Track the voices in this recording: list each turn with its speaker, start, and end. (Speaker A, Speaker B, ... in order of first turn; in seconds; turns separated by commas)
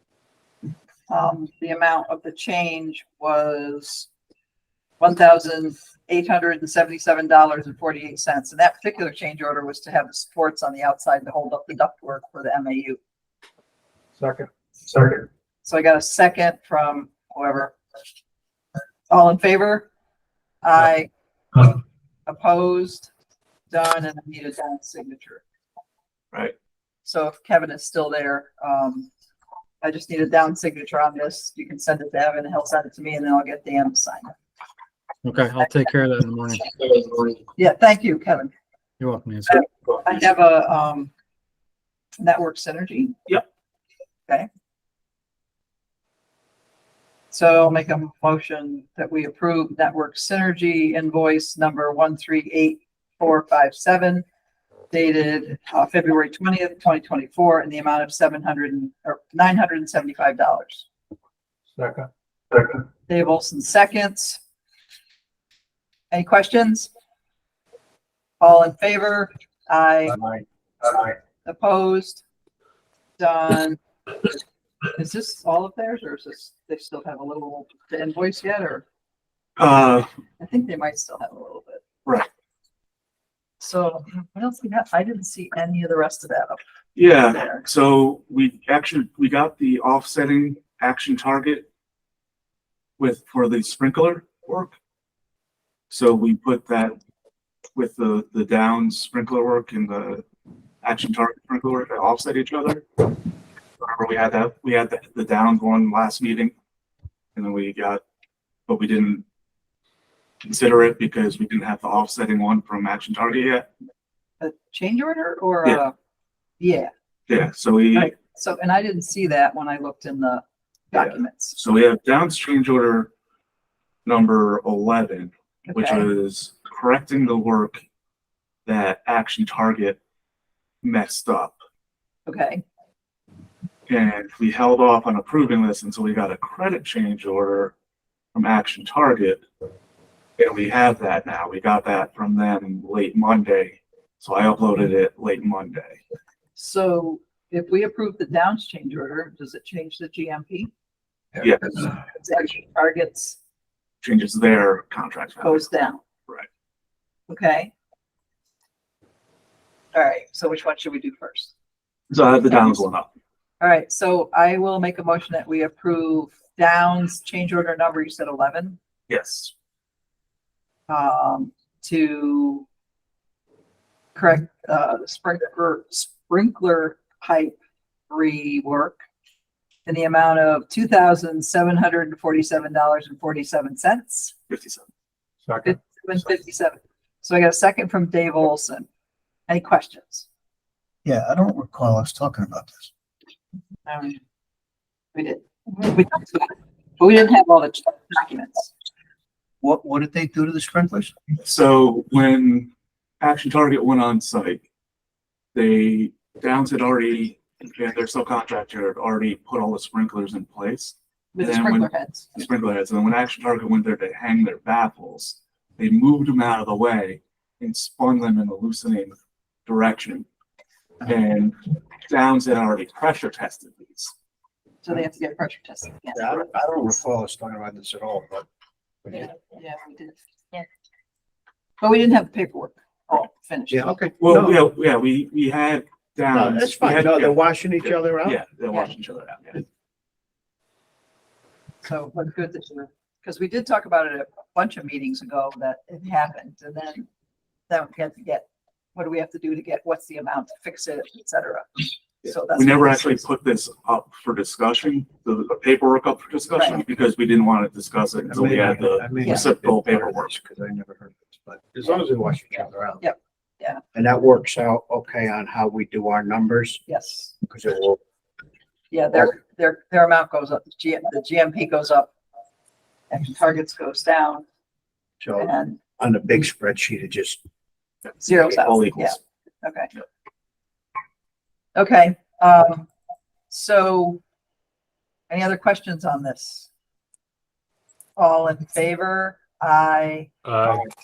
Speaker A: 1.1-4.1, Speaker A: 5.0-13.0, Speaker B: 14.2-15.3, Speaker A: 15.6-17.8, Speaker A: 19.1-19.9, Speaker A: 20.6-21.1, Speaker A: 22.2-23.1, Speaker A: 23.7-25.4, Speaker A: 27.0-29.1, Speaker A: 29.8-34.3, Speaker C: 35.2-37.4, Speaker A: 37.5-38.5, Speaker C: 39.0-39.6, Speaker A: 39.5-41.1, Speaker A: 42.2-43.2, Speaker A: 47.3-54.2, Speaker A: 54.9-60.9, Speaker B: 61.8-62.8, Speaker A: 63.1-64.4, Speaker A: 66.1-66.9, Speaker A: 68.4-70.2, Speaker A: 71.4-72.2, Speaker A: 73.2-74.3, Speaker A: 74.9-78.8, Speaker D: 79.6-80.1, Speaker A: 80.4-81.8, Speaker A: 83.6-86.6, Speaker D: 87.0-91.7, Speaker A: 87.3-87.6, Speaker D: 93.0-94.8, Speaker D: 95.9-97.0, Speaker D: 97.8-100.2, Speaker D: 100.8-102.8, Speaker D: 103.8-106.5, Speaker D: 107.3-108.0, Speaker D: 108.7-109.2, Speaker D: 110.4-113.7, Speaker A: 114.4-115.9, Speaker A: 116.6-116.9, Speaker D: 117.3-118.1, Speaker A: 117.9-121.6, Speaker D: 120.9-123.1, Speaker D: 124.0-127.8, Speaker A: 125.7-126.0, Speaker D: 128.7-130.0, Speaker D: 130.8-131.5, Speaker A: 132.3-132.6, Speaker D: 133.9-137.7, Speaker D: 138.3-139.4, Speaker D: 140.4-146.0, Speaker A: 146.6-150.7, Speaker D: 151.4-151.7, Speaker A: 151.7-153.4, Speaker D: 154.0-155.7, Speaker A: 155.4-156.0, Speaker A: 157.3-157.7, Speaker A: 159.9-161.5, Speaker D: 162.1-163.1, Speaker A: 162.5-162.8, Speaker A: 163.6-168.8, Speaker D: 169.1-169.5, Speaker A: 170.9-172.6, Speaker A: 174.1-177.6, Speaker A: 178.1-179.0, Speaker A: 179.8-184.3, Speaker D: 184.5-184.8, Speaker B: 185.4-185.8, Speaker A: 185.6-188.9, Speaker A: 189.5-190.3, Speaker E: 191.1-192.8, Speaker A: 193.8-194.2, Speaker A: 195.1-198.7, Speaker E: 199.6-201.1, Speaker D: 201.4-202.7, Speaker D: 203.2-204.6, Speaker D: 205.5-219.1, Speaker A: 211.3-212.4, Speaker D: 219.7-220.2, Speaker D: 221.0-224.1, Speaker A: 224.8-226.5, Speaker E: 226.1-228.4, Speaker A: 229.1-230.7, Speaker A: 231.8-233.9, Speaker E: 233.7-234.6, Speaker D: 234.2-239.5, Speaker E: 236.3-238.4, Speaker A: 241.8-247.1, Speaker A: 247.7-253.2, Speaker D: 252.2-260.3, Speaker E: 258.3-263.1, Speaker A: 259.2-259.5, Speaker A: 263.0-263.8, Speaker E: 263.9-266.8, Speaker A: 266.9-267.3, Speaker E: 267.4-268.0, Speaker A: 268.9-272.1, Speaker A: 273.1-274.4, Speaker E: 275.2-277.4, Speaker A: 275.4-275.8, Speaker A: 278.2-279.9, Speaker D: 278.3-279.2, Speaker A: 281.8-282.9, Speaker A: 283.5-284.2, Speaker A: 285.3-286.7, Speaker A: 288.1-290.3